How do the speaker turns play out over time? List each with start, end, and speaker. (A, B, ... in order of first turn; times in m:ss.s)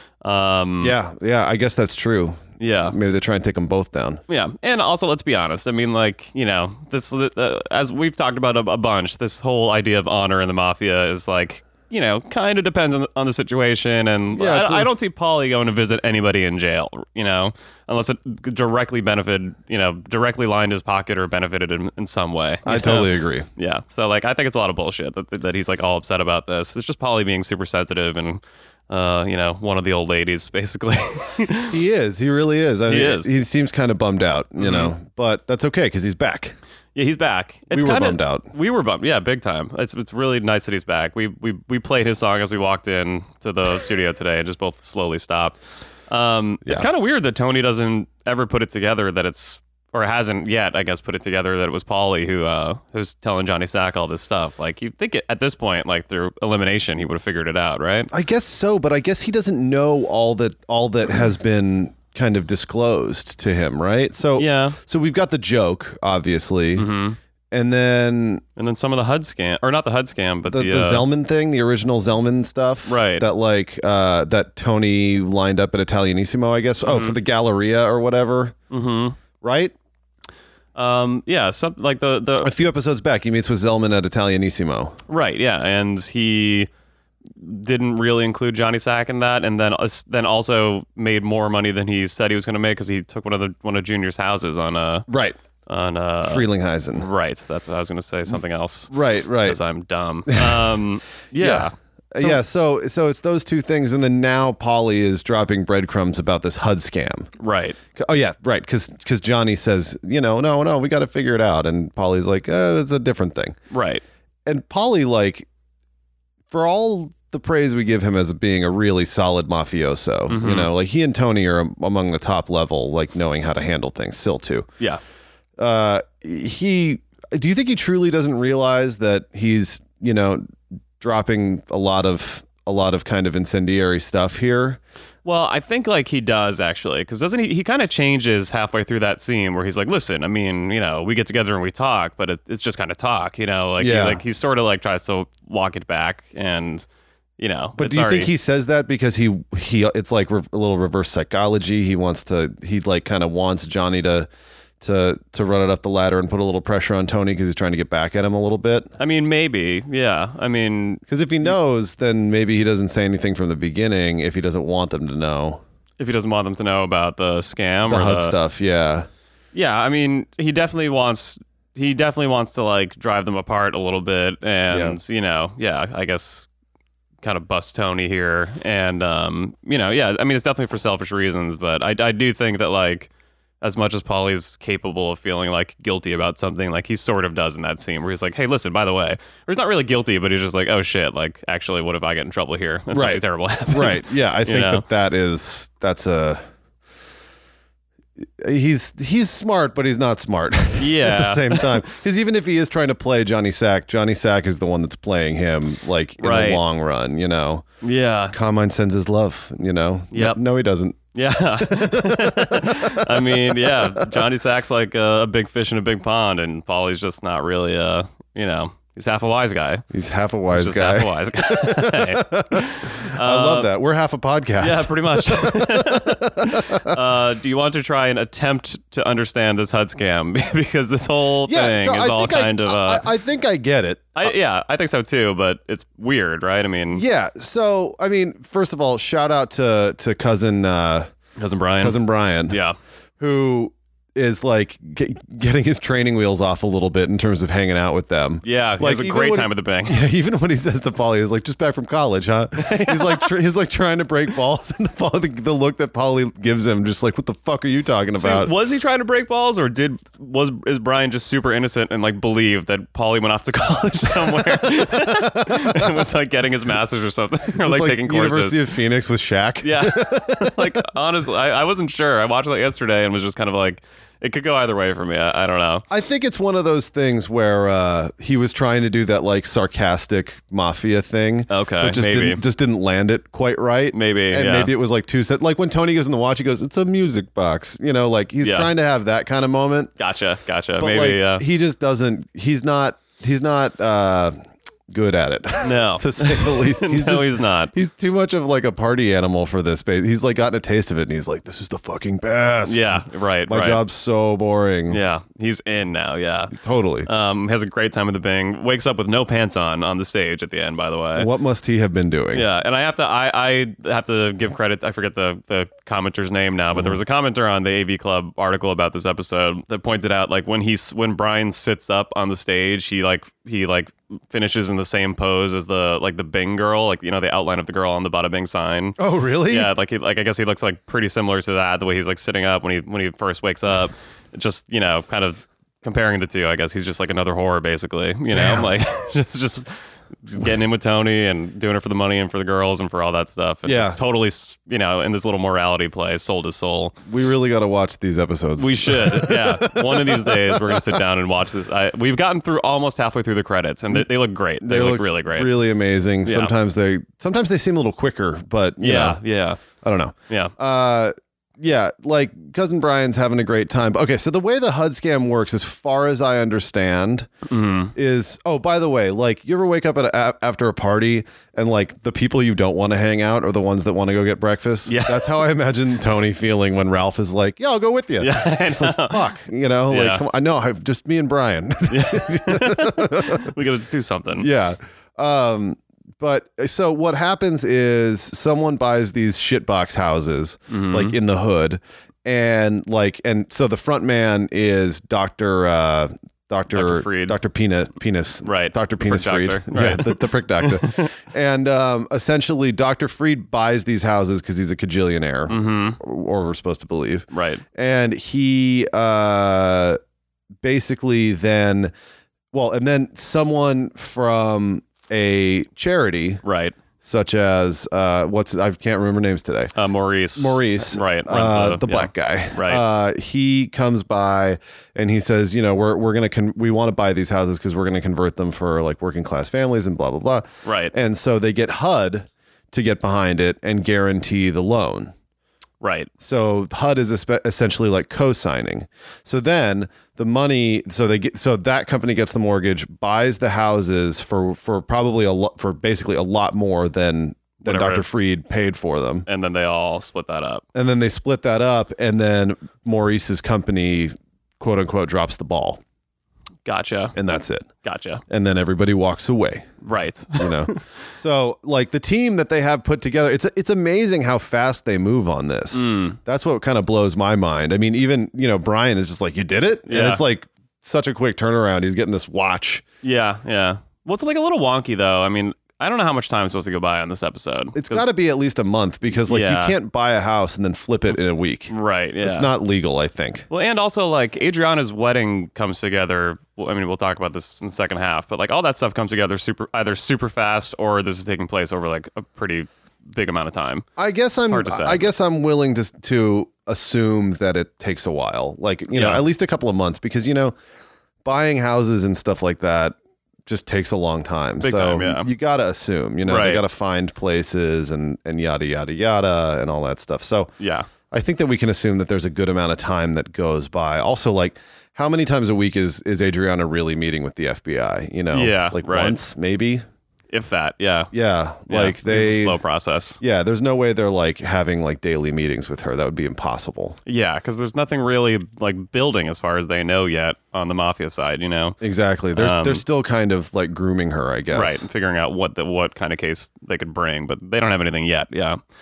0:00.2-0:00.9 A
0:00.8-0:04.2 B
0:02.6-0:03.0 A
0:04.3-0:31.8 A
0:14.3-0:14.9 B
0:22.6-0:23.5 B
0:31.7-0:36.6 B
0:32.9-0:33.3 A
0:34.6-0:34.9 A
0:36.9-0:58.1 A
0:37.7-0:38.5 B
0:58.1-1:06.9 B
1:04.4-1:04.8 A
1:06.8-1:07.2 A
1:07.5-1:08.4 B
1:08.6-1:11.0 A
1:10.5-1:18.6 B
1:12.9-1:13.2 A
1:16.8-1:17.2 A
1:18.7-1:19.2 A
1:19.4-1:19.7 B
1:20.8-1:22.5 A
1:22.4-1:25.0 B
1:25.1-1:26.7 A
1:27.4-1:35.1 A
1:35.1-1:35.4 B
1:35.6-1:42.4 A
1:36.2-1:37.1 B
1:38.9-1:39.6 B
1:40.3-1:40.7 B
1:41.4-1:47.3 B
1:47.4-1:47.8 A
1:48.0-1:53.6 B
1:53.7-1:54.0 A
1:54.4-1:55.4 B
1:56.5-2:04.7 B
2:00.3-2:00.7 A
2:05.6-2:10.5 B
2:11.0-2:14.8 B
2:15.2-2:26.8 A
2:23.8-2:24.2 B
2:27.4-2:28.3 A
2:27.8-2:34.3 B
2:34.8-2:38.9 B
2:39.0-2:41.5 A
2:41.1-2:45.6 B
2:46.0-2:48.3 A
2:47.9-2:49.1 B
2:49.5-2:56.5 A
2:54.7-2:55.0 B
2:57.2-3:03.1 A
3:03.6-3:14.8 A
3:12.9-3:16.4 B
3:18.4-3:27.6 B
3:20.8-3:21.8 A
3:26.2-3:26.6 A
3:27.8-3:28.4 A
3:28.3-3:31.0 B
3:30.1-3:30.4 A
3:31.1-3:39.8 A
3:31.6-3:34.2 B
3:39.9-3:47.0 B
3:40.5-3:43.7 A
3:44.6-3:53.0 A
3:51.5-3:54.3 B
3:54.2-3:57.0 A
3:56.9-4:01.1 B
4:01.4-4:02.8 A
4:01.8-4:02.6 B
4:03.2-4:18.5 B
4:08.4-4:10.0 A
4:12.6-4:13.3 A
4:18.2-4:28.6 A
4:24.8-4:26.0 B
4:27.6-4:30.8 B
4:29.6-4:35.8 A
4:35.9-4:49.9 B
4:41.5-4:42.4 A
4:43.9-4:44.7 A
4:48.4-4:48.7 A
4:50.0-4:51.4 A
4:50.8-4:54.4 B
4:54.9-5:05.0 B
4:55.6-4:57.7 A
5:02.6-5:03.8 A
5:04.9-5:06.5 A
5:06.5-5:07.1 B
5:07.0-5:11.3 A
5:11.1-5:12.4 B
5:12.3-5:47.0 A
5:29.0-5:29.7 B
5:38.3-5:38.7 B
5:43.6-5:44.0 B
5:47.1-5:51.0 B
5:48.6-5:55.6 A
5:54.6-5:59.2 B
5:56.2-5:56.5 A
5:58.8-5:59.6 A
5:59.8-6:07.3 B
6:07.5-6:07.9 A
6:07.9-6:23.5 B
6:14.9-6:15.4 A
6:18.2-6:19.3 A
6:19.9-6:20.2 A
6:21.9-6:24.5 A
6:24.4-6:50.0 B
6:30.7-6:31.2 A
6:36.7-6:37.4 A
6:38.4-6:41.1 A
6:45.5-6:46.0 A
6:47.3-6:47.6 A
6:50.6-6:51.9 B
6:52.5-6:56.4 B
6:56.4-6:56.8 A
6:57.0-6:59.7 B
6:59.7-7:02.8 A
7:00.4-7:15.1 B
7:10.6-7:10.9 A
7:15.8-7:16.1 A
7:16.2-7:29.2 B
7:27.6-7:28.0 A
7:29.2-7:30.6 A
7:30.7-7:35.8 B
7:36.6-7:37.2 A
7:37.2-7:37.7 B
7:37.8-7:38.2 A
7:38.3-7:39.8 B
7:39.8-7:40.8 A
7:40.3-7:52.8 B
7:45.7-7:46.2 A
7:49.9-7:50.2 A
7:53.0-7:58.1 A
7:57.7-8:03.5 B
7:59.3-7:59.8 A
8:01.7-8:02.5 A
8:03.5-8:13.8 A
8:14.0-8:20.5 B
8:14.5-8:15.1 A
8:18.9-8:19.2 A
8:21.2-8:30.5 B
8:24.6-8:25.3 A
8:26.2-8:26.6 A
8:30.6-8:30.9 A
8:31.1-8:39.8 B
8:38.3-8:39.2 A
8:40.3-8:41.1 A
8:41.1-8:42.6 B
8:41.7-8:43.2 A
8:43.2-8:47.0 B
8:47.0-8:51.8 A
8:51.8-8:54.8 B
8:52.3-8:52.8 A
8:54.5-8:58.6 A